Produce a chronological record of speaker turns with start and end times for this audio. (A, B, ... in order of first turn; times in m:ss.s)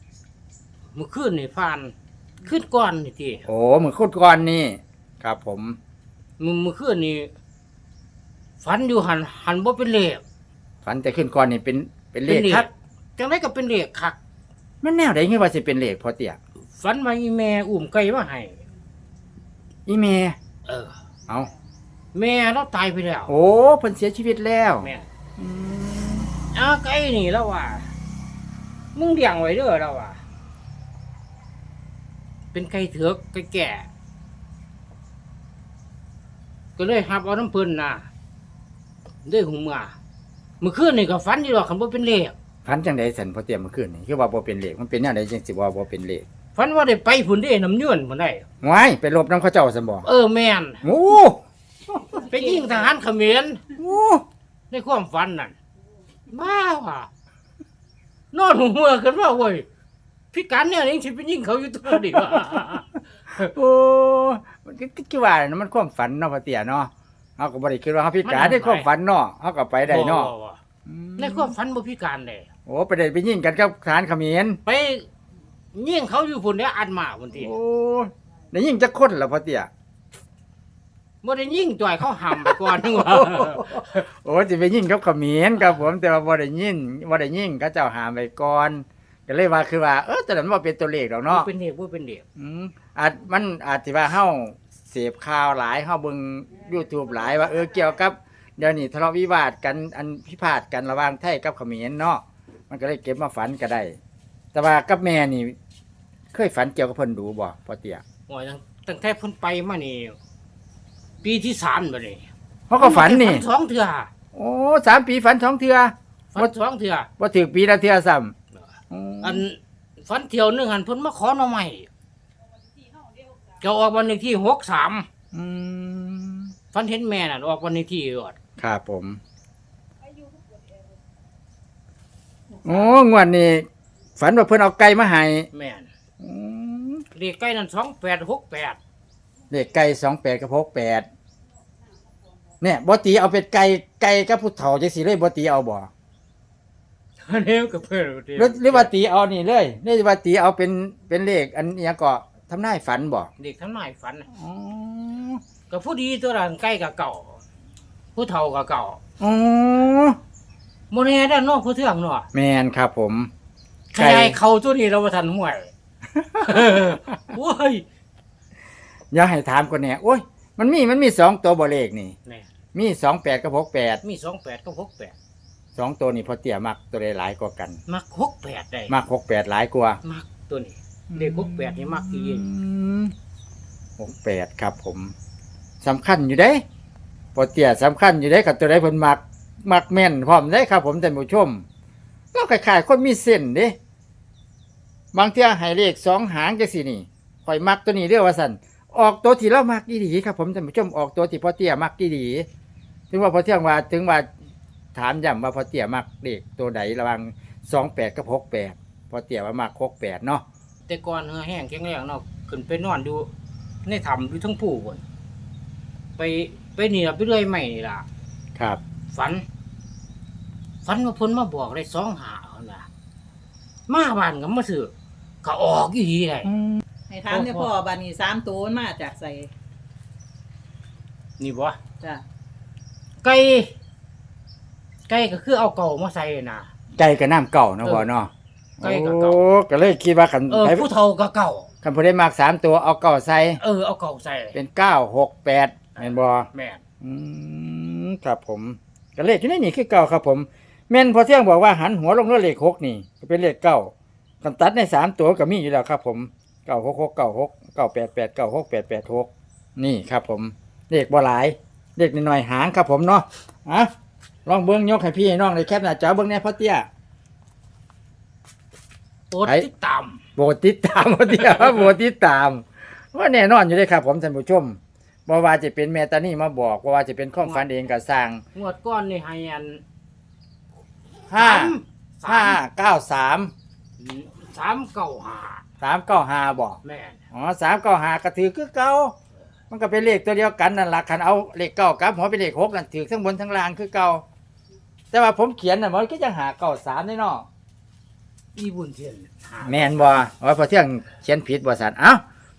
0:00.9-0:03.5 A
0:03.5-0:05.8 B
0:06.4-0:07.3 A
0:08.6-0:10.2 A
0:10.8-0:12.7 B
0:12.3-0:14.2 A
0:14.8-0:16.4 B
0:16.8-0:18.6 A
0:19.9-0:20.4 B
0:20.7-0:21.0 A
0:22.1-0:23.3 A
0:23.3-0:26.3 B
0:24.8-0:25.1 A
0:26.5-0:27.9 A
0:29.0-0:30.2 A
0:32.5-0:33.9 A
0:36.8-0:38.1 A
0:39.2-0:39.9 A
0:40.6-0:42.4 A
0:42.6-0:46.2 B
0:46.6-0:48.5 A
0:48.6-0:50.1 B
0:50.0-0:50.8 A
0:50.8-0:51.4 B
0:51.9-0:52.3 B
0:52.2-0:53.6 A
0:53.8-0:54.2 B
0:54.7-0:55.6 A
0:56.3-0:57.1 A
0:58.3-0:59.7 A
1:00.3-1:02.9 A
1:03.3-1:10.3 B
1:08.2-1:08.9 A
1:09.9-1:10.6 A
1:10.9-1:11.5 B
1:11.2-1:12.5 A
1:12.7-1:14.6 B
1:14.7-1:15.1 A
1:15.7-1:17.5 A
1:17.3-1:19.7 B
1:21.2-1:24.0 A
1:22.3-1:31.5 B
1:31.3-1:32.2 A
1:32.4-1:44.0 B
1:44.5-1:45.6 B
1:46.3-1:48.0 B
1:48.3-1:50.2 A
1:51.2-1:54.1 A
1:52.7-1:53.4 B
1:54.3-1:56.5 B
1:56.3-1:57.1 A
1:57.2-1:58.3 B
1:58.9-1:59.4 B
1:59.2-2:01.9 A
2:03.5-2:05.1 A
2:05.3-2:06.5 B
2:06.7-2:08.4 A
2:08.6-2:09.2 B
2:12.6-2:13.7 B
2:14.2-2:15.5 B
2:15.5-2:15.9 A
2:16.2-2:17.0 B
2:17.2-2:18.8 A
2:19.5-2:21.1 B
2:22.6-2:25.9 B
2:27.2-2:28.9 A
2:28.4-2:33.3 B
2:33.4-2:34.3 A
2:34.4-2:35.4 B
2:35.7-2:37.4 A
2:38.2-2:39.0 A
2:39.2-2:40.2 B
2:40.9-2:42.3 A
2:42.3-2:43.3 B
2:43.9-2:45.7 A
2:44.0-2:44.4 B
2:46.2-2:46.6 B
2:46.4-2:47.8 A
2:49.1-2:52.2 B
2:52.7-2:54.0 B
2:54.0-2:55.2 A
2:55.8-2:57.8 B
2:57.9-2:58.9 A
2:58.9-3:00.0 B
3:00.0-3:02.5 A
3:01.1-3:03.1 B
3:04.0-3:05.1 B
3:05.8-3:06.6 B
3:07.4-3:11.6 B
3:12.3-3:13.8 B
3:15.1-3:22.5 B
3:23.1-3:24.3 B
3:25.0-3:30.4 B
3:30.9-3:33.3 A
3:33.9-3:35.0 A
3:36.2-3:38.1 A
3:39.1-3:39.4 A
3:40.8-3:42.9 A
3:43.9-3:44.9 A
3:45.4-3:46.5 A
3:46.5-3:46.8 B
3:47.1-3:49.5 C
3:47.3-3:47.7 A
3:51.4-3:51.8 A
3:53.2-3:53.7 A
3:55.1-3:56.7 A
3:57.0-4:00.9 B
3:58.8-3:59.4 A
4:00.5-4:01.7 A
4:01.8-4:03.6 B
4:03.6-4:04.6 A
4:04.5-4:06.5 B
4:06.5-4:06.8 A
4:07.0-4:23.9 B
4:24.5-4:26.9 B
4:29.3-4:30.2 A
4:30.4-4:38.4 B
4:38.6-4:39.8 A
4:41.3-4:43.5 B
4:41.3-4:42.6 A
4:44.0-4:45.6 A
4:45.8-4:46.8 B
4:46.8-4:47.2 A
4:47.3-4:49.1 B
4:49.7-4:54.2 B
4:55.1-4:57.5 B
4:58.6-5:00.0 A
4:59.6-5:02.2 B